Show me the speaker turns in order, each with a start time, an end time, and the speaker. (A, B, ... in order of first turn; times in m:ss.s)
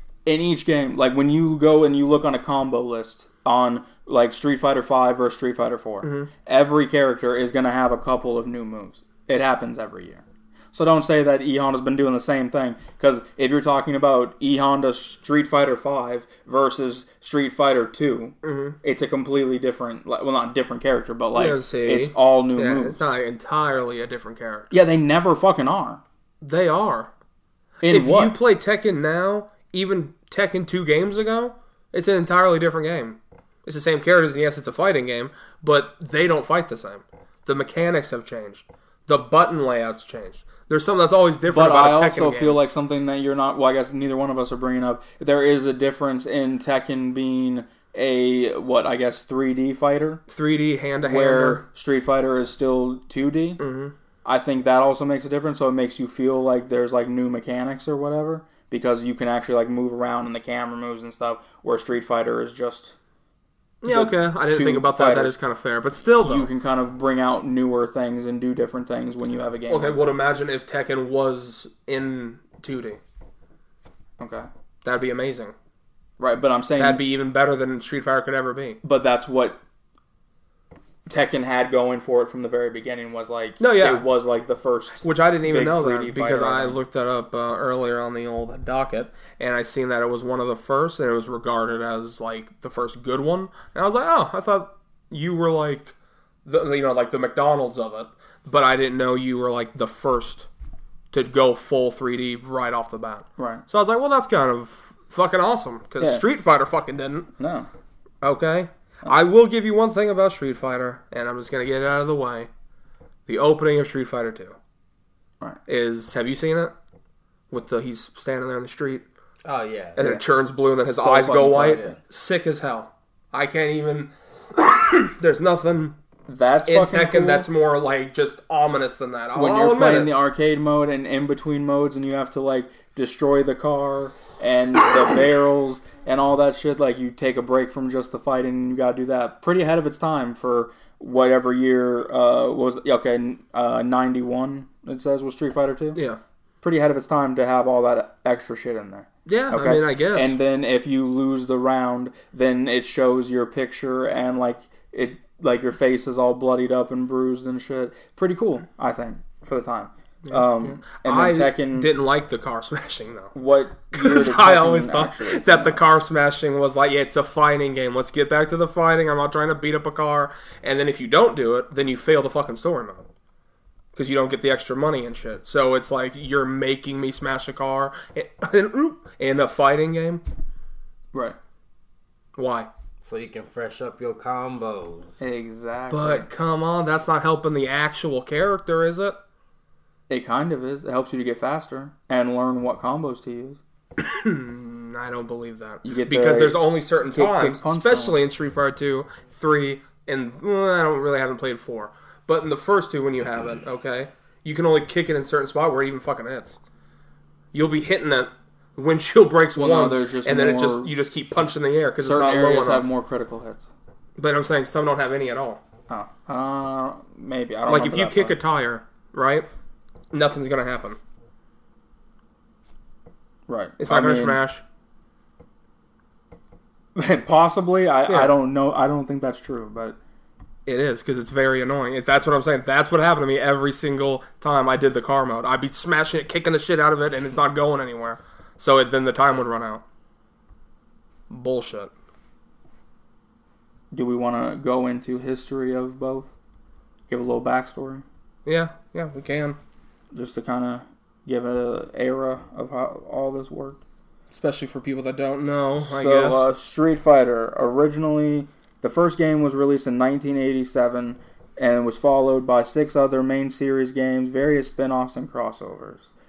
0:00.2-0:23.1 A
0:06.0-0:06.3 B
0:18.4-0:18.8 B
0:21.3-0:24.7 B
0:24.7-0:26.0 A
0:26.4-0:27.1 B
0:27.8-0:28.3 A
0:27.8-0:42.6 B
0:41.5-0:50.2 A
0:50.3-0:51.6 B
0:51.0-0:53.6 A
0:53.6-0:53.9 B
0:54.2-1:03.0 A
1:03.8-1:06.5 B
1:03.9-1:05.4 A
1:06.2-1:10.1 A
1:09.7-1:13.0 B
1:14.2-1:14.5 A
1:14.8-1:15.5 B
1:16.2-1:17.0 A
1:16.8-1:18.8 B
1:18.8-1:19.6 A
1:21.1-1:26.8 A
1:23.6-1:24.0 B
1:25.0-1:40.5 B
1:41.1-1:47.3 B
1:43.4-1:43.6 A
1:46.0-1:46.2 A
1:47.4-1:47.7 A
1:48.2-1:52.5 B
1:53.2-1:54.6 B
1:55.7-1:56.7 B
1:57.5-1:59.1 B
1:59.4-2:00.0 C
2:00.0-2:06.0 B
2:00.8-2:02.0 A
2:01.6-2:01.9 C
2:06.3-2:07.5 A
2:06.6-2:10.1 B
2:09.3-2:26.0 A
2:25.9-2:26.2 B
2:26.6-2:41.9 A
2:29.2-2:30.4 B
2:40.2-2:43.3 B
2:43.3-2:45.8 A
2:43.9-2:53.1 B
2:53.9-3:00.2 B
3:02.4-3:02.7 B
3:03.0-3:05.1 C
3:05.2-3:06.3 A
3:05.9-3:09.2 B
3:10.1-3:13.6 A
3:14.0-3:26.6 B
3:15.8-3:18.2 A
3:27.5-3:32.9 B
3:29.5-3:30.9 A
3:32.0-3:33.7 A
3:34.2-3:35.6 B
3:35.9-3:38.4 A
3:37.7-3:39.5 B
3:40.1-3:41.0 B
3:43.5-3:44.4 A
3:43.8-3:44.6 B
3:47.0-3:50.0 A
3:50.6-3:59.8 B
4:01.3-4:01.9 B
4:03.9-4:06.3 A
4:07.1-4:08.0 A
4:08.4-4:09.6 B
4:10.1-4:13.8 A
4:14.3-4:16.5 B
4:15.8-4:26.1 A